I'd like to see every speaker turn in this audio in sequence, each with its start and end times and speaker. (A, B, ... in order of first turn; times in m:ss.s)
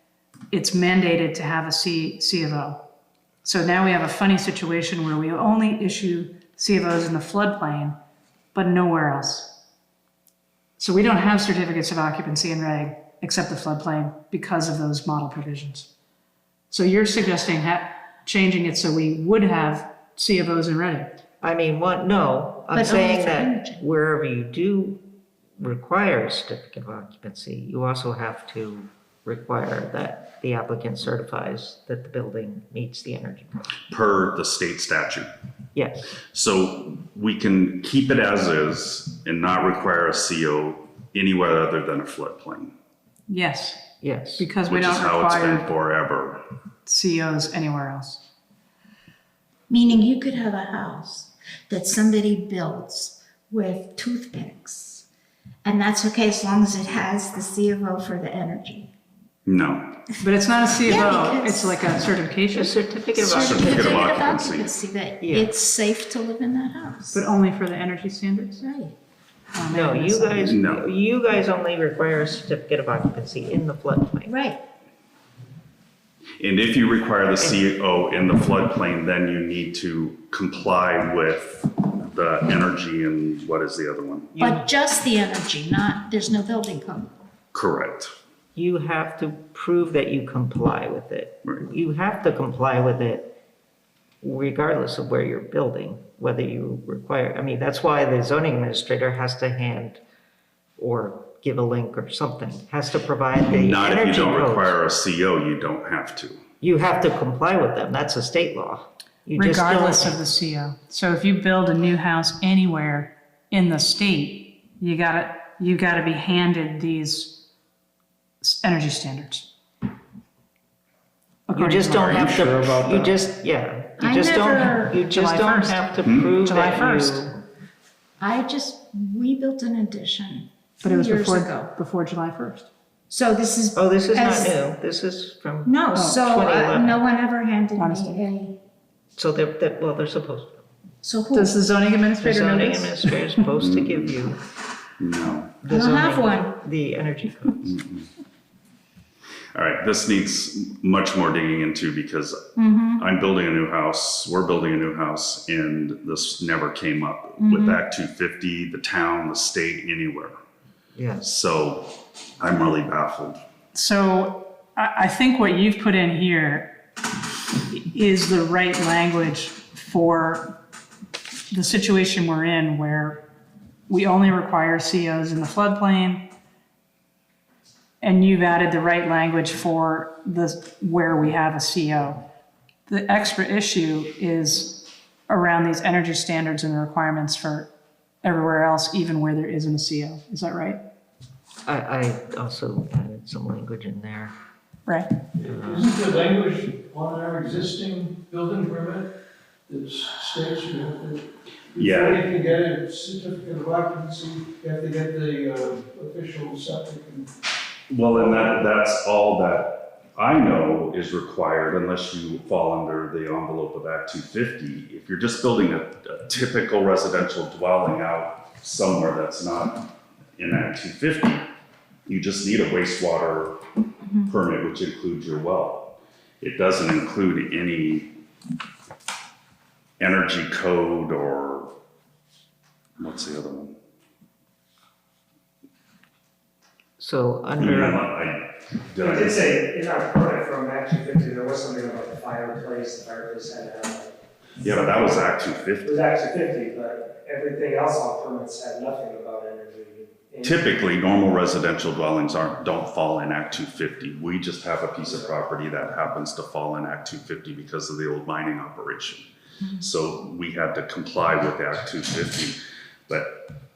0:00.5-0:02.8 A
0:03.4-0:08.0 A
0:08.5-0:09.6 A
0:10.8-0:15.9 A
0:16.7-0:21.1 A
0:21.4-0:25.0 B
0:22.7-0:23.8 C
0:25.6-0:33.6 B
0:33.9-0:35.3 D
0:35.7-0:36.1 B
0:36.3-0:42.7 D
0:43.3-0:43.8 A
0:44.0-0:44.5 B
0:44.4-0:45.7 A
0:44.7-0:46.4 D
0:46.9-0:48.2 A
0:49.7-0:55.1 C
0:55.6-0:58.9 C
0:59.5-0:59.9 D
1:00.2-1:02.8 A
1:00.8-1:01.8 C
1:02.5-1:04.1 B
1:03.2-1:07.2 C
1:03.2-1:04.8 D
1:05.2-1:05.5 B
1:07.1-1:08.6 A
1:08.6-1:09.0 C
1:09.5-1:10.5 A
1:09.7-1:14.3 B
1:10.4-1:10.9 D
1:14.3-1:14.6 C
1:16.4-1:24.4 D
1:17.4-1:17.7 B
1:24.4-1:24.6 B
1:24.4-1:27.1 C
1:27.5-1:28.1 D
1:28.6-1:33.3 B
1:34.2-1:40.0 B
1:40.8-1:44.8 B
1:43.5-1:46.4 D
1:46.6-1:50.2 B
1:49.4-1:57.4 A
1:58.4-1:59.5 A
2:01.5-2:02.3 A
2:01.5-2:07.4 B
2:02.0-2:03.2 D
2:04.0-2:05.6 C
2:05.1-2:05.7 A
2:06.0-2:06.4 D
2:06.4-2:07.3 A
2:08.2-2:11.7 C
2:10.8-2:12.7 A
2:13.1-2:14.6 C
2:13.7-2:17.0 B
2:15.6-2:18.6 C
2:17.8-2:18.2 A
2:19.2-2:20.6 B
2:21.0-2:21.6 C
2:21.3-2:23.2 A
2:22.2-2:24.4 B
2:23.6-2:24.3 D
2:25.0-2:25.6 D
2:25.6-2:27.7 B
2:25.7-2:26.5 C
2:27.6-2:28.1 D
2:29.5-2:32.4 D
2:32.6-2:33.1 C
2:33.0-2:40.4 D
2:37.4-2:37.8 C
2:41.0-2:41.3 B
2:41.2-2:43.4 D
2:43.7-2:46.8 A
2:47.7-2:50.6 A
2:51.5-2:53.2 A
2:53.9-2:56.2 A
2:58.0-3:02.2 A
3:02.9-3:07.7 A
3:08.2-3:10.8 A
3:11.6-3:14.3 B
3:15.4-3:19.1 E
3:15.4-3:15.8 B
3:19.7-3:27.3 E
3:21.8-3:22.2 D
3:27.9-3:39.9 D
3:40.4-3:41.5 D
3:42.1-3:43.6 D
3:44.2-3:48.1 D
3:50.0-3:51.7 D
3:53.0-3:53.7 D
3:57.0-3:58.0 B
3:57.6-3:59.5 D
3:59.0-4:04.2 F
4:04.6-4:06.0 D
4:05.8-4:10.7 F
4:10.4-4:22.6 D
4:15.0-4:15.3 F
4:23.1-4:23.4 D